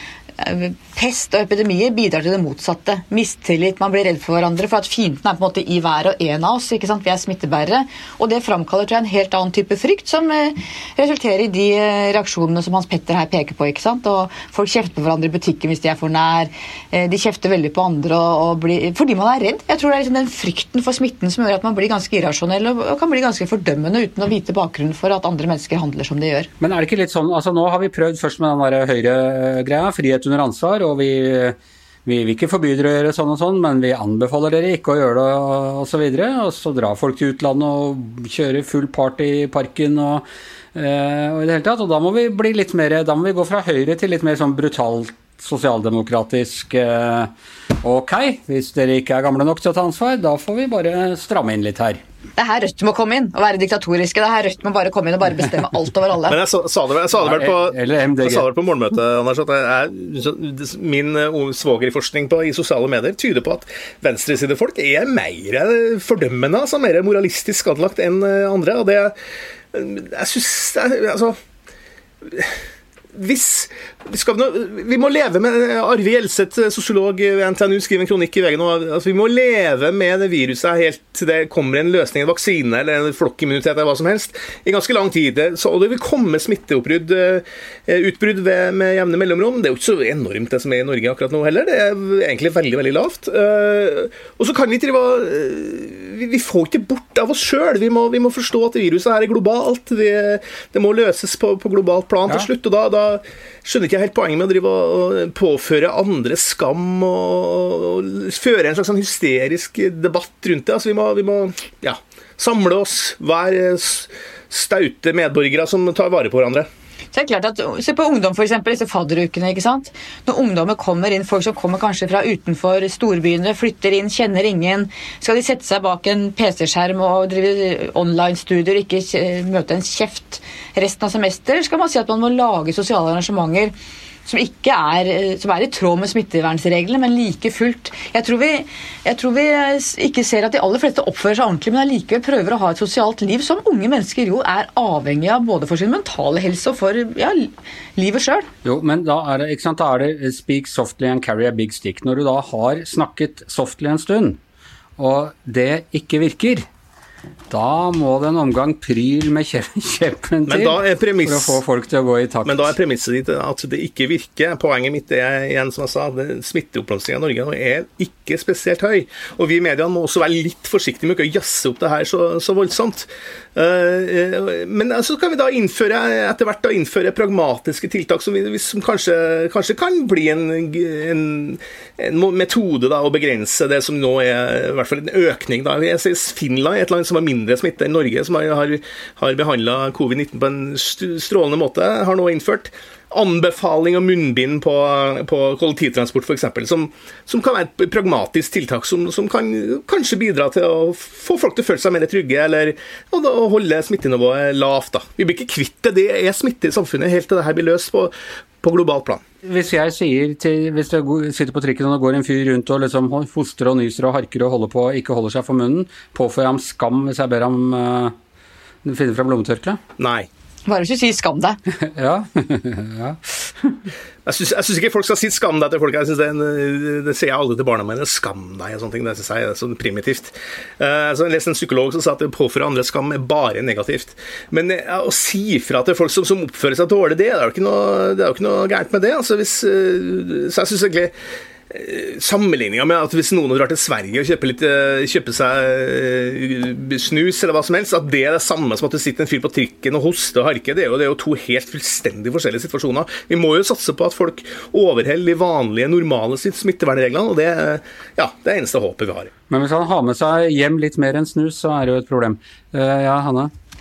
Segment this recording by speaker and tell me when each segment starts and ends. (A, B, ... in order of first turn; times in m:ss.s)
0:00.4-0:26.5 A
0:26.6-0:47.3 B
0:47.8-0:52.0 B
0:52.4-0:56.4 A
0:56.3-1:09.1 C
0:57.2-0:58.5 B
1:09.7-1:11.4 C
1:12.3-1:12.6 C
1:13.2-1:56.7 C
1:57.1-2:13.7 A
2:14.3-2:28.5 A
2:28.6-2:34.4 B
2:35.0-2:36.7 B
2:37.5-2:42.7 B
2:40.5-2:41.6 C
2:42.4-3:29.2 C
3:29.5-3:38.1 B
3:38.8-3:39.8 B
3:40.0-3:40.3 C
3:40.7-3:41.6 A
3:41.8-3:43.8 B
3:44.3-4:01.1 C
4:01.7-4:19.3 C
4:19.5-4:23.5 B